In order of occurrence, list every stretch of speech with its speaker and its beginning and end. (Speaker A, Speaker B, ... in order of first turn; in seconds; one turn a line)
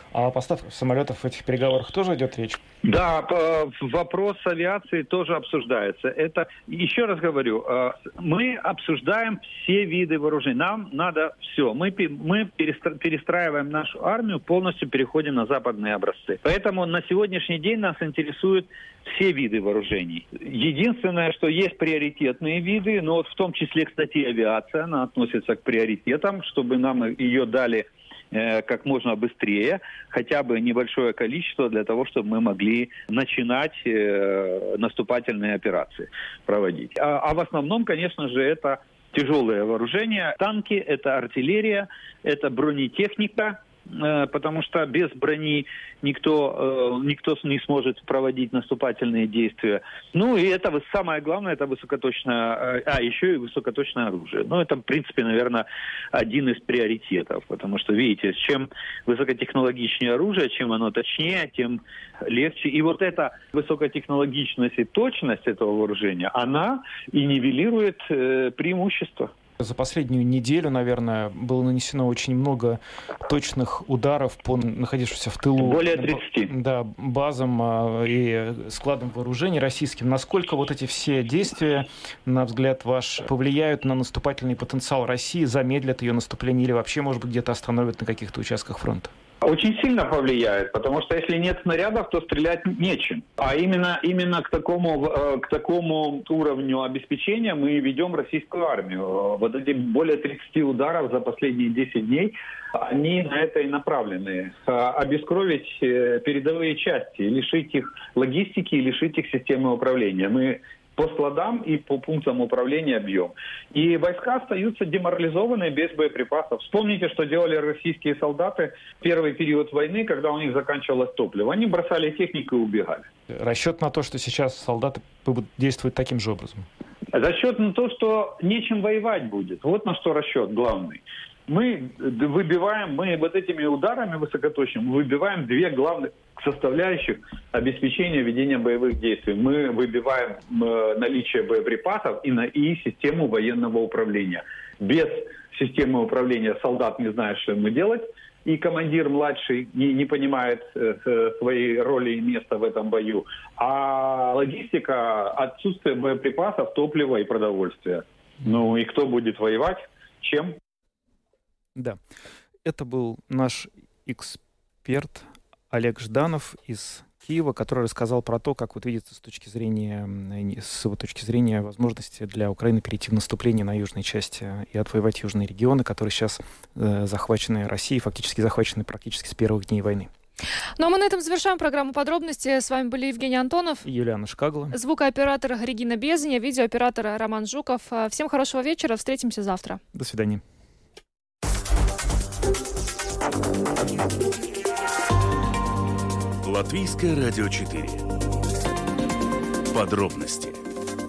Speaker A: 0.1-2.6
Speaker B: 2.8-69.3
Speaker A: 69.6-89.1
Speaker B: 75.6-76.5
Speaker B: 89.4-123.1
Speaker A: 123.3-126.7
Speaker B: 127.1-160.6
Speaker A: 162.7-180.1
Speaker C: 180.8-183.9
Speaker A: 183.8-184.8
Speaker C: 184.7-189.8
Speaker A: 189.9-190.4
Speaker D: 196.4-198.1
Speaker D: 199.7-200.6